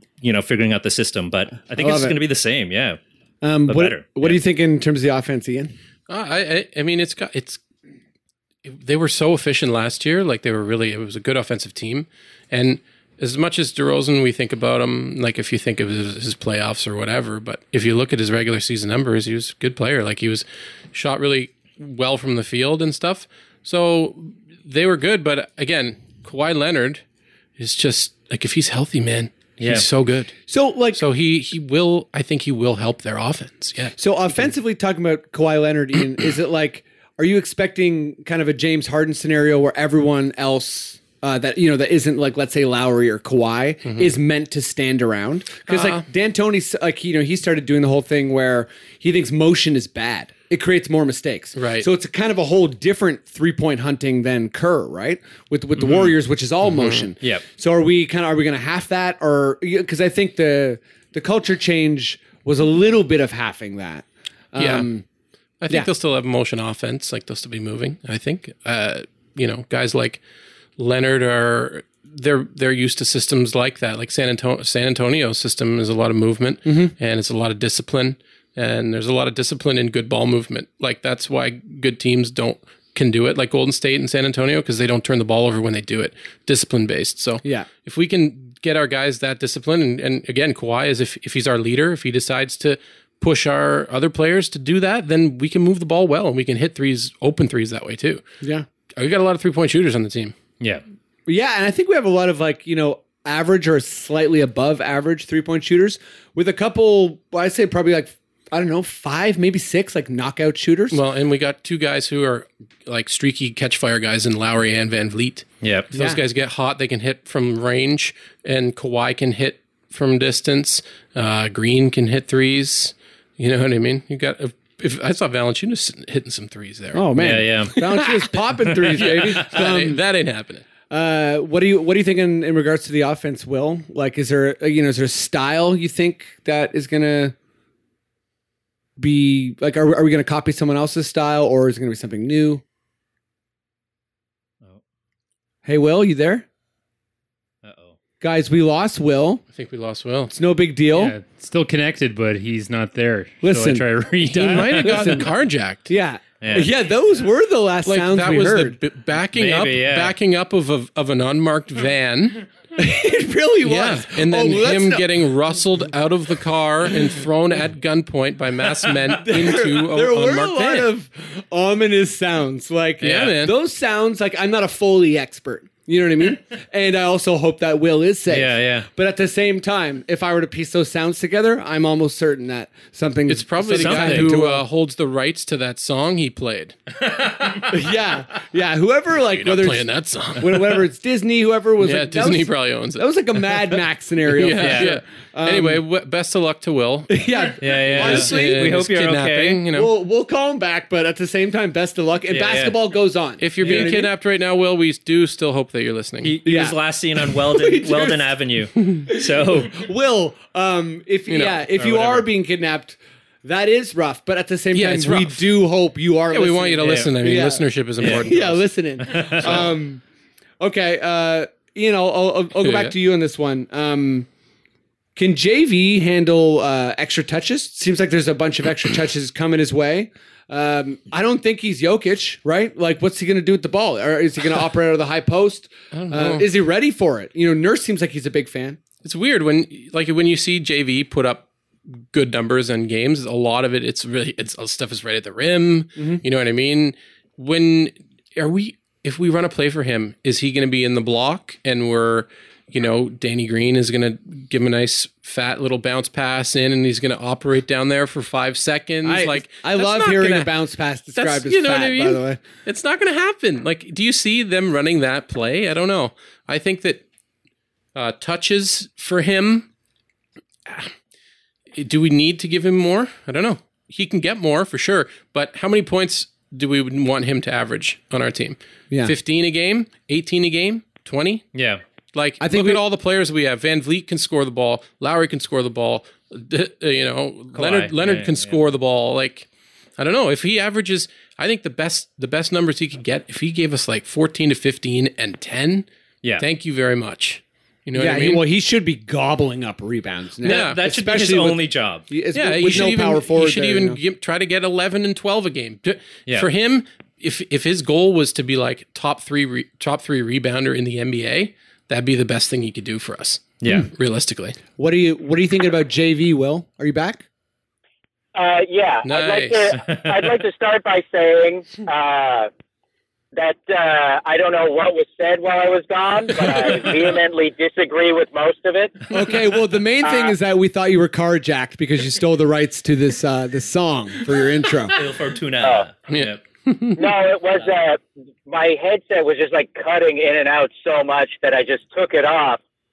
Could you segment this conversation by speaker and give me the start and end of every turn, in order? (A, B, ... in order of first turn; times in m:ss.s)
0:00.2-0:03.0 A
0:01.8-0:02.2 B
0:03.4-0:05.7 B
0:03.7-0:04.4 A
0:06.1-0:07.6 C
0:08.6-0:27.0 C
0:27.6-0:30.3 C
0:29.6-0:29.9 A
0:30.5-0:31.0 B
0:31.0-0:34.0 C
0:34.0-1:05.0 B
0:43.8-0:44.1 C
0:45.7-0:46.0 C
0:51.6-0:51.9 C
0:55.8-0:56.1 C
0:56.6-0:57.1 C
1:04.6-1:04.9 C
1:05.6-1:10.2 C
1:10.8-1:38.2 C
1:16.6-1:16.9 B
1:27.4-1:27.7 B
1:38.9-1:40.3 C
1:41.3-1:51.0 B
1:50.9-2:10.6 C
1:55.6-1:55.9 A
1:55.9-1:56.2 B
2:06.9-2:10.0 B
2:07.2-2:08.0 A
2:10.9-2:17.3 B
2:19.0-2:22.6 B
2:25.6-2:26.4 B
2:27.6-2:27.9 A
2:28.2-2:29.4 B
2:29.5-2:30.3 C
2:30.3-2:31.2 B
2:31.0-2:35.2 D
2:33.4-2:35.3 B
2:34.3-2:35.9 C
2:35.8-2:38.8 B
2:36.4-2:36.7 A
2:37.8-2:42.5 C
2:39.3-2:40.1 A
2:42.8-2:45.1 B
2:43.6-2:50.9 C
2:49.2-3:04.6 B
2:53.0-2:53.5 C
2:58.3-2:58.9 A
3:03.3-3:06.8 C
3:03.7-3:04.3 A
3:07.0-3:07.7 A
3:07.7-3:15.8 B
3:09.3-3:10.8 C
3:11.8-3:13.0 C
3:14.3-3:17.1 C
3:14.5-3:15.0 A
3:17.1-3:18.8 B
3:17.6-3:19.6 A
3:17.8-3:19.9 C
3:19.6-3:24.1 B
3:22.3-3:22.7 A
3:23.4-3:26.4 C
3:23.6-3:23.9 A
3:26.2-3:29.8 A
3:26.4-3:28.2 B
3:28.9-3:40.0 B
3:31.3-3:31.6 C
3:31.8-3:32.2 A
3:34.7-3:35.4 C
3:36.3-3:39.7 C
3:36.8-3:37.1 A
3:38.0-3:38.2 A
3:39.0-3:39.6 A
3:40.6-3:44.3 B
3:42.6-3:42.9 C
3:45.2-3:58.8 B
3:55.9-3:56.5 C
3:59.0-4:01.5 C
4:02.0-4:20.5 C
4:06.0-4:06.2 B
4:19.0-4:22.4 B
4:21.2-4:27.0 C
4:27.9-4:29.7 C
4:30.6-4:30.9 C
4:31.7-4:41.5 C
4:41.5-4:41.8 A
4:42.1-4:55.9 C
4:42.4-4:42.8 B
4:47.5-4:48.6 A
4:56.4-4:58.4 C
4:57.9-5:04.0 B
5:00.4-5:02.0 A
5:00.4-5:00.8 C
5:02.3-5:14.6 C
5:13.6-5:13.9 A
5:14.8-5:17.2 B
5:18.3-5:22.5 E
5:19.0-5:19.7 C
5:23.3-5:29.0 E
5:29.1-5:35.0 B
5:30.0-5:30.3 E
5:34.9-5:36.4 A
5:35.6-5:35.9 E
5:36.1-5:37.0 C
5:37.0-5:42.6 E